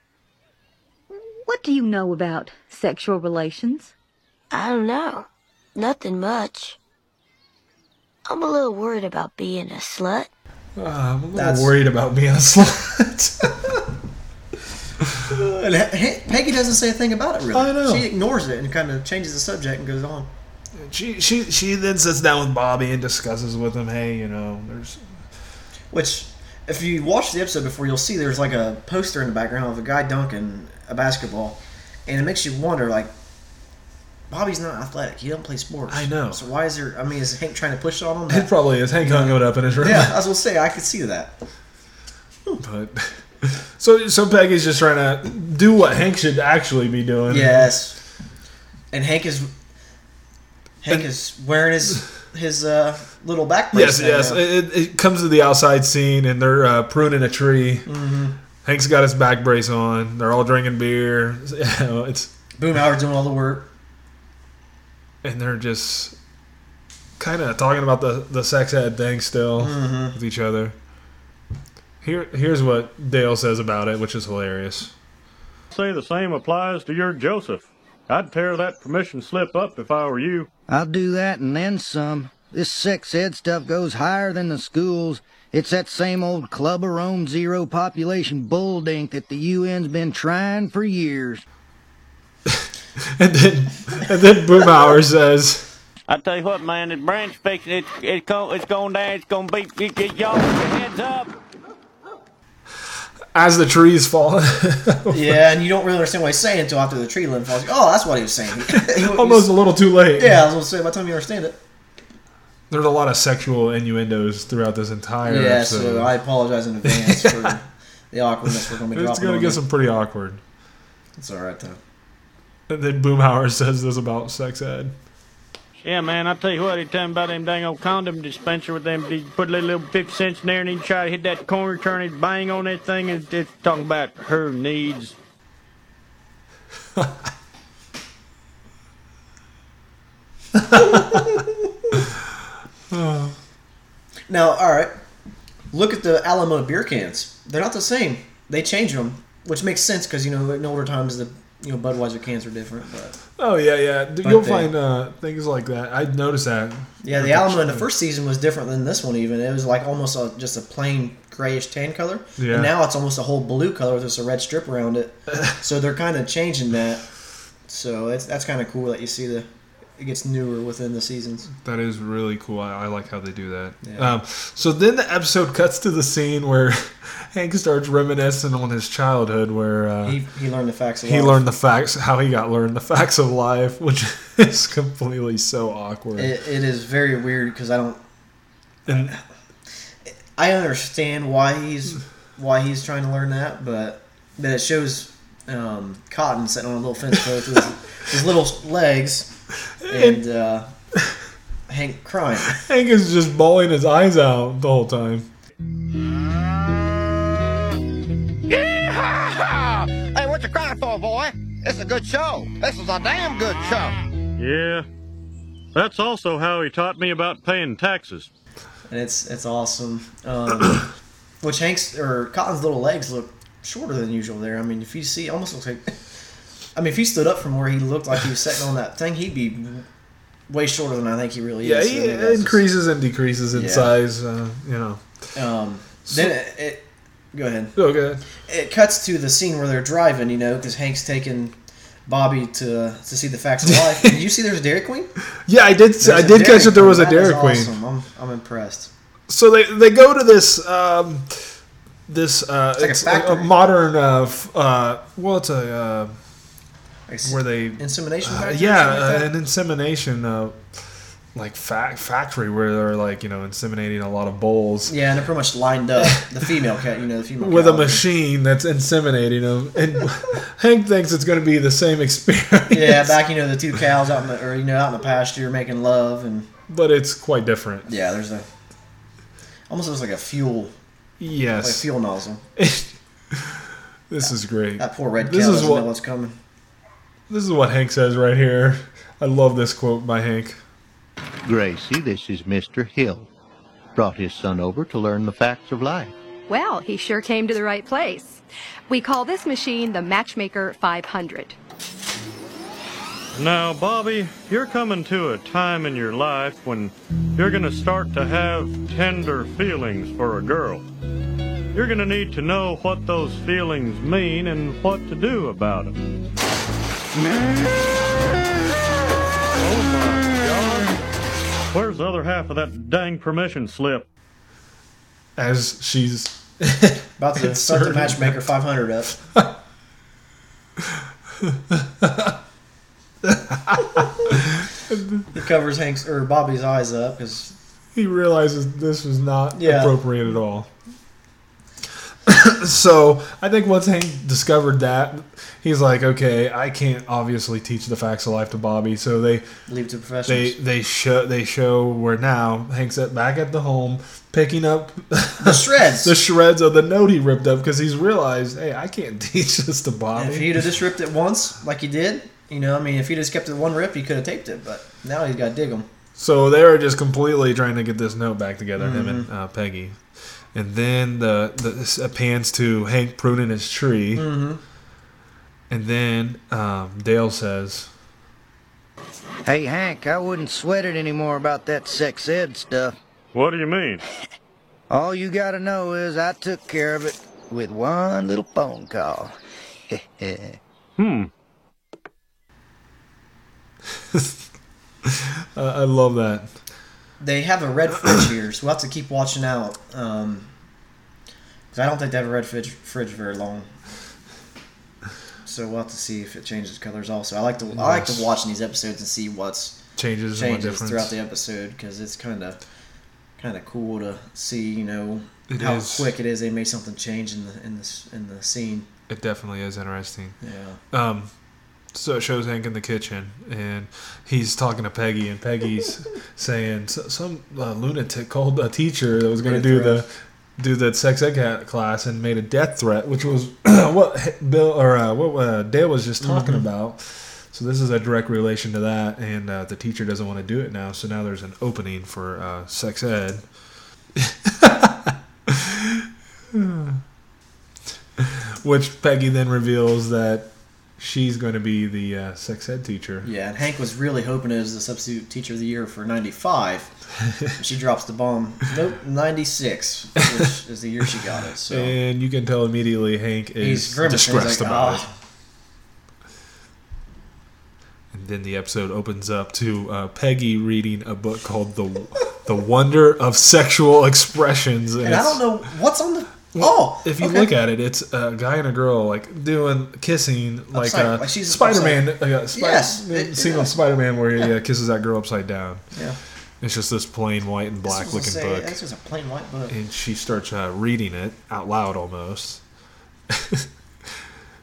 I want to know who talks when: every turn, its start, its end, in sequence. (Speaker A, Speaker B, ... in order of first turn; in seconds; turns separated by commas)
Speaker A: 1.1-3.9, Speaker B: 4.5-6.8, Speaker B: 8.3-10.3, Speaker C: 10.8-13.8, Speaker D: 11.3-11.7, Speaker D: 15.2-20.3, Speaker C: 17.5-18.1, Speaker C: 20.7-25.1, Speaker D: 25.9-33.1, Speaker D: 34.3-41.3, Speaker C: 35.9-36.4, Speaker C: 38.3-40.1, Speaker C: 42.6-47.8, Speaker D: 47.3-48.0, Speaker D: 48.9-49.5, Speaker D: 50.8-54.4, Speaker C: 53.7-57.9, Speaker D: 57.9-58.4, Speaker C: 58.6-62.3, Speaker D: 62.6-63.7, Speaker C: 65.2-66.2, Speaker C: 67.2-70.7, Speaker D: 69.6-70.2, Speaker C: 72.0-74.9, Speaker E: 75.7-80.5, Speaker F: 80.7-91.4, Speaker C: 92.5-95.7, Speaker G: 96.1-101.3, Speaker C: 103.3-105.4, Speaker D: 105.1-109.5, Speaker C: 108.7-110.5, Speaker D: 110.1-111.6, Speaker C: 112.7-116.1, Speaker D: 115.2-119.6, Speaker C: 116.8-117.5, Speaker C: 118.5-120.4, Speaker D: 121.2-121.8, Speaker C: 122.7-125.0, Speaker G: 125.8-135.2, Speaker C: 140.7-141.2, Speaker D: 140.8-141.4, Speaker C: 142.9-143.3, Speaker D: 144.3-144.9, Speaker D: 145.7-153.2, Speaker C: 153.4-157.9, Speaker D: 154.2-154.7, Speaker D: 157.0-167.1, Speaker C: 162.4-162.7, Speaker D: 167.7-171.5, Speaker C: 171.6-180.2, Speaker D: 173.8-174.1, Speaker D: 180.0-181.5, Speaker C: 181.0-186.3, Speaker D: 186.2-188.0, Speaker C: 188.9-189.1, Speaker D: 188.9-189.2, Speaker D: 190.3-199.3, Speaker C: 199.8-200.2, Speaker D: 199.9-200.7, Speaker D: 201.7-202.6, Speaker C: 202.5-205.3, Speaker H: 208.5-213.9, Speaker E: 214.4-214.8, Speaker E: 215.7-218.3, Speaker D: 218.9-220.8, Speaker D: 221.4-226.0, Speaker D: 226.7-229.8, Speaker D: 230.5-232.6, Speaker C: 231.6-235.0, Speaker D: 233.5-233.9, Speaker D: 235.3-237.8, Speaker C: 236.1-236.3, Speaker C: 237.8-238.2, Speaker D: 238.4-241.5, Speaker D: 242.1-245.1, Speaker C: 243.7-244.2, Speaker C: 245.4-247.7, Speaker D: 246.0-248.9, Speaker C: 249.3-256.2, Speaker D: 252.8-253.5, Speaker D: 257.1-259.3, Speaker C: 257.2-265.0, Speaker D: 264.9-268.0, Speaker C: 267.4-273.1, Speaker D: 272.7-276.5, Speaker C: 276.7-277.9, Speaker D: 277.9-278.4, Speaker D: 279.7-280.7, Speaker C: 281.2-281.9, Speaker D: 281.6-282.4, Speaker C: 282.6-285.9, Speaker D: 284.2-286.4, Speaker C: 287.3-290.6, Speaker I: 291.4-293.3, Speaker I: 293.9-296.1, Speaker J: 296.5-301.6, Speaker E: 303.3-310.8, Speaker E: 311.7-315.9, Speaker E: 319.6-321.0, Speaker E: 321.7-324.1, Speaker C: 325.4-328.4, Speaker D: 327.2-329.2, Speaker C: 330.8-332.4, Speaker C: 333.2-335.3, Speaker D: 335.3-337.5, Speaker C: 337.9-340.7, Speaker D: 339.5-340.0, Speaker C: 342.2-349.5, Speaker D: 349.7-350.6, Speaker C: 350.2-360.6, Speaker D: 355.4-356.1, Speaker D: 360.1-365.9, Speaker C: 366.2-370.0, Speaker D: 368.8-369.3, Speaker C: 370.5-374.3, Speaker D: 374.1-374.6, Speaker C: 375.7-377.9, Speaker F: 379.4-382.9, Speaker E: 383.3-384.0, Speaker F: 384.9-389.3, Speaker F: 389.9-390.6, Speaker E: 391.0-391.3, Speaker C: 394.1-394.4, Speaker C: 395.0-396.5, Speaker D: 397.2-400.5, Speaker D: 401.7-403.7, Speaker D: 405.4-409.8, Speaker C: 407.7-408.3, Speaker C: 409.9-411.1, Speaker D: 410.3-412.6, Speaker D: 413.4-418.9, Speaker C: 415.5-416.1, Speaker C: 419.1-420.4, Speaker D: 420.4-420.8, Speaker C: 420.9-421.3, Speaker C: 421.9-443.4, Speaker D: 429.4-430.0, Speaker D: 436.2-436.6, Speaker C: 444.1-447.0, Speaker C: 448.2-453.3, Speaker D: 453.2-456.9, Speaker D: 457.6-461.9, Speaker C: 461.7-465.1, Speaker D: 463.6-465.1, Speaker C: 468.1-475.5, Speaker D: 475.0-477.5, Speaker C: 476.5-485.8, Speaker D: 480.7-483.7, Speaker D: 485.9-486.2, Speaker C: 486.6-488.8, Speaker D: 487.8-489.7, Speaker C: 489.7-492.6, Speaker C: 493.3-493.7